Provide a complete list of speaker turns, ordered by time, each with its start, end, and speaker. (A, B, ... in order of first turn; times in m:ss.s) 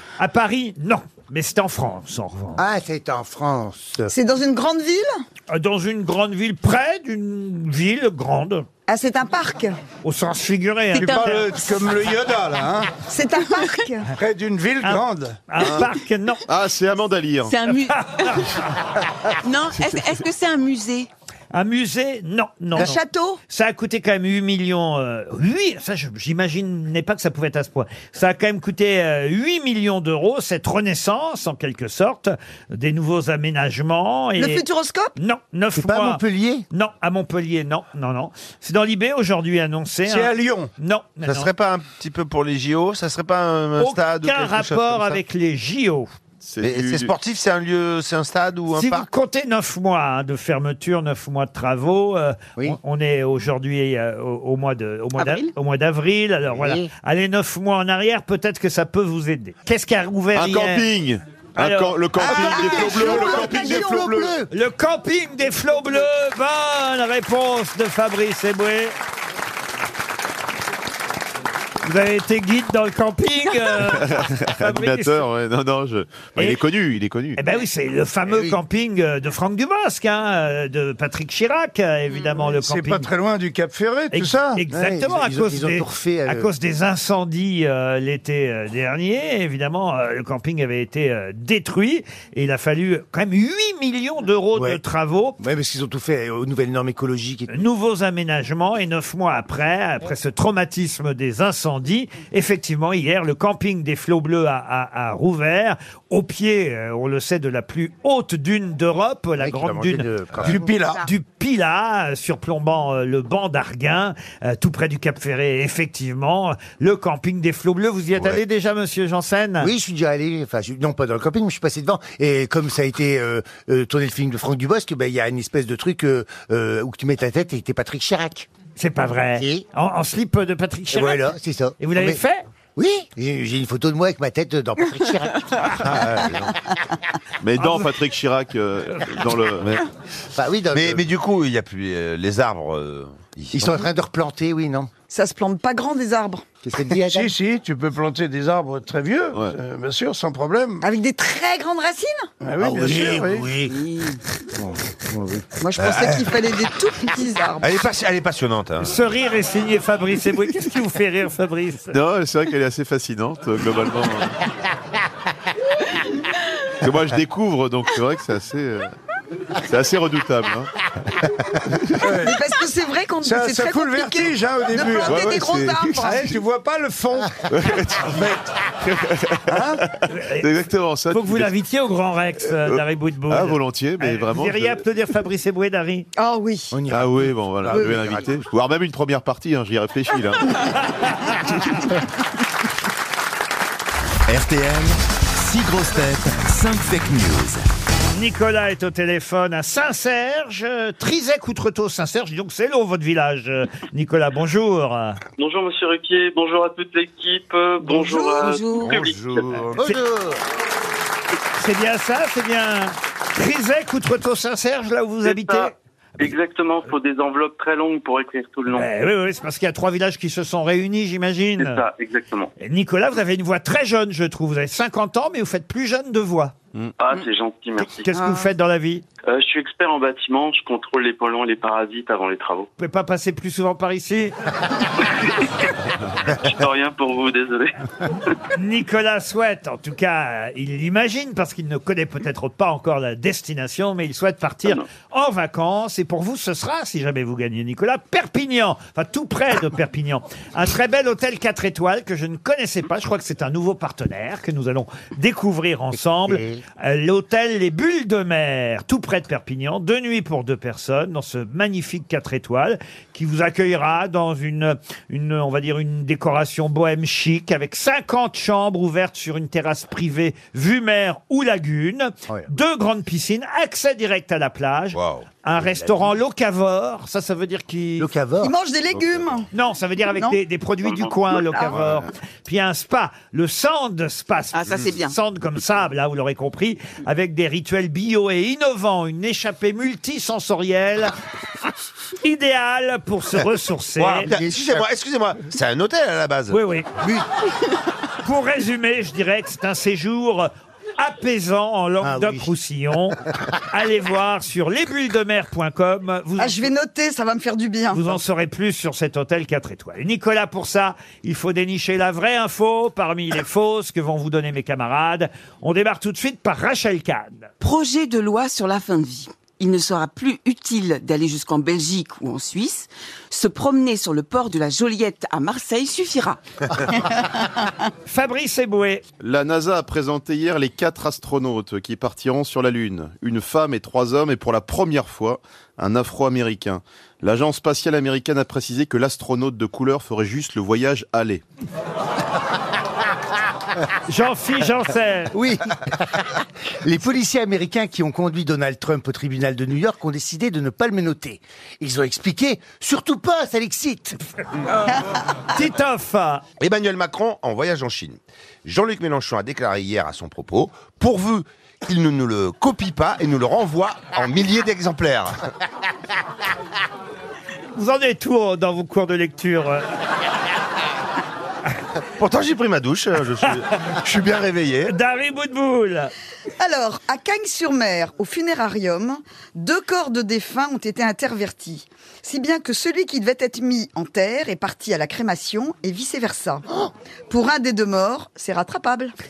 0:00.2-0:02.6 A
0:02.6-0:04.1 B
0:04.1-0:05.1 C
0:05.5-0:08.7 A
0:08.9-0:09.8 C
0:10.0-0:11.5 A
0:10.9-0:11.5 D
0:10.9-0:12.9 E
0:13.1-0:14.1 C
0:14.2-0:15.4 E
0:14.8-0:16.4 A
0:16.5-0:17.6 F
0:17.5-0:18.4 D
0:17.7-0:18.5 A
0:19.4-0:21.1 D
0:19.8-0:20.1 F
0:21.5-0:34.6 A
0:22.8-0:23.4 C
0:34.4-0:35.1 C
0:35.2-0:41.5 A
0:35.7-0:36.7 B
0:40.1-0:40.7 E
0:41.2-0:45.2 G
0:43.8-0:46.1 A
0:46.4-0:47.1 F
0:46.6-0:49.1 G
0:48.7-1:00.8 A
0:55.2-0:55.5 D
0:56.5-0:56.9 B
1:00.3-1:04.3 F
1:01.6-1:02.0 A
1:02.2-1:04.5 B
1:02.2-1:04.1 C
1:04.5-1:08.9 A
1:11.8-1:15.2 A
1:13.8-1:17.4 F
1:17.4-1:23.1 A
1:18.3-1:18.6 B
1:22.4-1:24.6 E
1:24.1-1:35.4 A
1:24.7-1:26.5 B
1:34.6-1:34.8 B
1:35.4-1:37.5 B
1:37.5-1:59.7 A
1:49.4-1:50.7 B
1:50.4-1:51.0 E
1:59.6-2:08.5 B
2:08.8-2:12.4 A
2:09.4-2:09.6 B
2:10.9-2:12.2 B
2:12.8-2:16.5 B
2:15.8-2:16.5 G
2:17.4-2:19.8 F
2:17.6-2:17.8 A
2:20.4-2:21.0 B
2:20.7-2:23.8 G
2:23.5-2:24.9 B
2:25.1-2:26.4 C
2:26.6-2:27.3 B
2:27.1-2:30.8 E
2:30.8-2:32.3 C
2:32.4-2:33.5 E
2:32.6-2:33.7 B
2:32.7-2:33.5 G
2:33.7-2:34.2 D
2:34.6-2:35.6 B
2:35.6-2:37.8 C
2:35.8-2:36.3 G
2:37.6-2:39.0 G
2:38.8-2:42.0 A
2:41.9-2:44.4 F
2:46.8-2:48.9 F
2:49.7-2:50.7 F
2:52.0-2:52.4 E
2:52.2-2:56.3 C
2:53.2-2:55.2 E
2:55.0-2:56.2 F
2:56.0-2:58.4 E
2:57.5-2:58.3 F
2:58.8-3:01.5 F
2:59.5-2:59.8 E
3:00.1-3:00.5 A
3:01.1-3:06.1 A
3:02.7-3:04.8 F
3:06.2-3:06.8 C
3:06.7-3:08.2 B
3:06.9-3:10.5 F
3:07.7-3:08.0 C
3:14.3-3:17.7 H
3:18.1-3:25.2 A
3:25.4-3:29.6 I
3:27.8-3:28.9 D
3:28.7-3:29.8 G
3:29.8-3:30.4 B
3:31.6-3:35.7 A
3:35.2-3:38.9 I
3:38.7-3:41.8 A
3:41.6-3:42.5 I
3:42.6-3:46.6 A
3:47.0-3:48.1 I
3:47.8-3:49.0 A
3:48.1-3:48.4 D
3:49.3-3:52.7 I
3:52.8-3:54.4 A
3:56.4-3:57.8 I
3:58.6-4:38.1 A
4:16.0-4:16.6 B
4:34.9-4:35.3 G
4:38.0-4:38.6 B
4:38.4-4:39.5 C
4:39.5-4:51.1 A
4:40.8-4:41.1 I
4:41.3-4:41.8 C
4:44.5-4:45.2 D
4:52.2-4:54.3 A
4:54.0-4:54.9 B
4:54.1-4:56.6 G
4:56.5-4:56.9 A
4:58.2-5:06.7 A
5:02.0-5:02.5 B
5:06.4-5:08.1 C
5:07.9-5:17.5 A
5:17.6-5:26.4 D
5:28.1-5:29.0 A
5:29.2-5:41.4 F
5:44.1-5:45.4 A
5:45.3-5:54.2 B
5:55.5-5:56.4 A
5:56.6-6:05.4 G
6:07.8-6:09.8 A
6:12.2-6:14.9 G
6:14.9-6:16.1 A
6:16.6-6:26.7 C
6:27.3-6:29.1 C